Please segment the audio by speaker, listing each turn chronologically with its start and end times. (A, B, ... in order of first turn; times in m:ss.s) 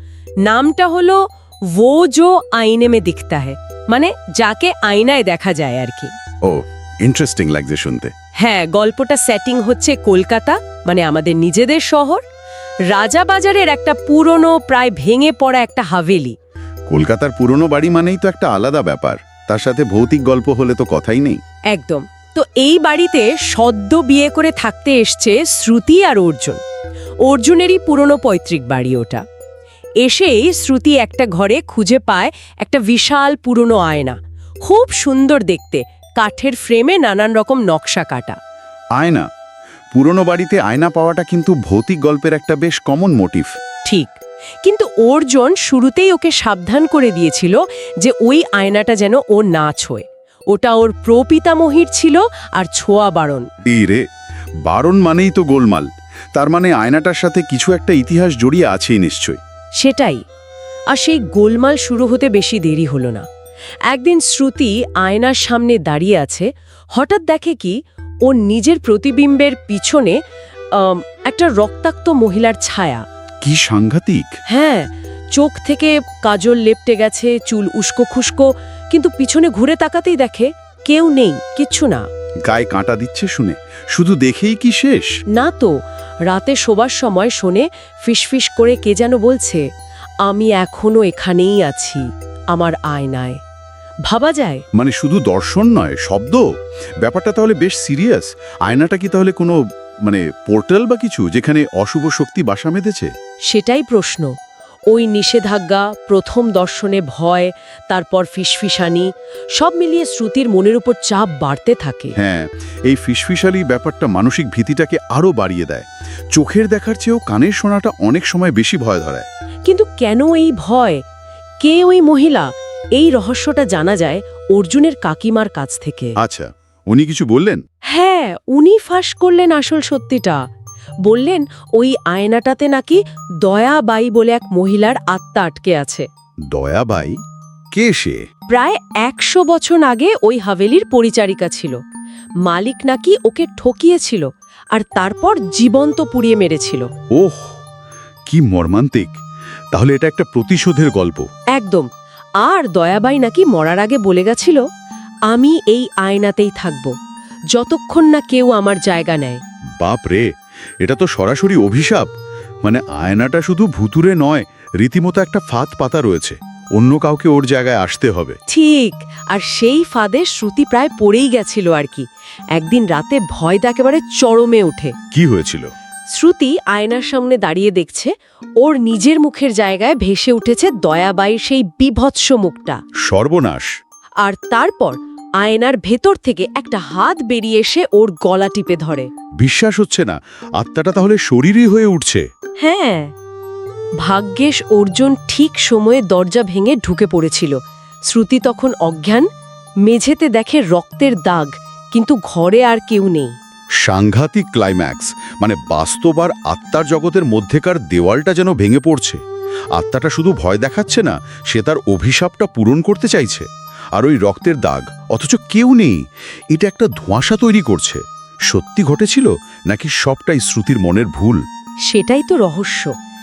0:00.4-0:01.2 A
0:01.7-0:06.1 A
0:06.4-0:08.1 B
0:08.4-0:12.2 A
0:12.9-0:16.4 A
0:16.9-0:21.4 B
0:21.7-0:26.6 A
0:27.2-0:29.2 A
0:30.0-0:38.4 A
0:39.0-0:39.2 B
0:39.9-0:43.5 B
0:43.8-0:53.5 A
0:53.6-0:54.0 B
0:54.6-0:59.4 B
0:59.8-1:00.2 A
1:00.9-1:03.2 A
1:03.9-1:10.2 A
1:10.7-1:13.0 A
1:13.4-1:14.3 B
1:14.5-1:22.0 A
1:22.4-1:25.1 B
1:25.3-1:25.7 A
1:26.3-1:29.6 A
1:30.2-1:33.4 A
1:34.1-1:34.6 A
1:34.7-1:36.4 B
1:37.0-1:43.1 B
1:43.5-1:44.3 A
1:44.9-1:52.2 A
1:52.2-1:59.2 B
1:59.6-2:01.0 A
2:01.6-2:06.2 A
2:06.2-2:07.6 B
2:07.9-2:10.4 A
2:11.0-2:16.1 A
2:16.5-2:17.2 B
2:17.7-2:18.2 B
2:18.5-2:21.8 A
2:22.4-2:26.9 A
2:27.1-2:27.6 B
2:28.3-2:29.2 B
2:29.7-2:31.2 B
2:31.5-2:31.9 A
2:32.4-2:34.6 A
2:35.3-2:36.9 A
2:37.5-2:39.4 A
2:39.8-2:40.2 B
2:40.8-2:42.1 B
2:42.6-2:48.4 B
2:48.5-2:54.9 A
2:55.1-2:55.7 B
2:56.1-3:02.8 A
3:03.0-3:03.7 B
3:04.2-3:09.1 A
3:09.4-3:12.2 B
3:12.6-3:13.1 A
3:14.0-3:17.6 A
3:18.1-3:19.3 A
3:19.8-3:23.3 A
3:23.8-3:29.2 B
3:29.7-3:36.0 B
3:36.5-3:41.4 B
3:41.9-3:42.9 A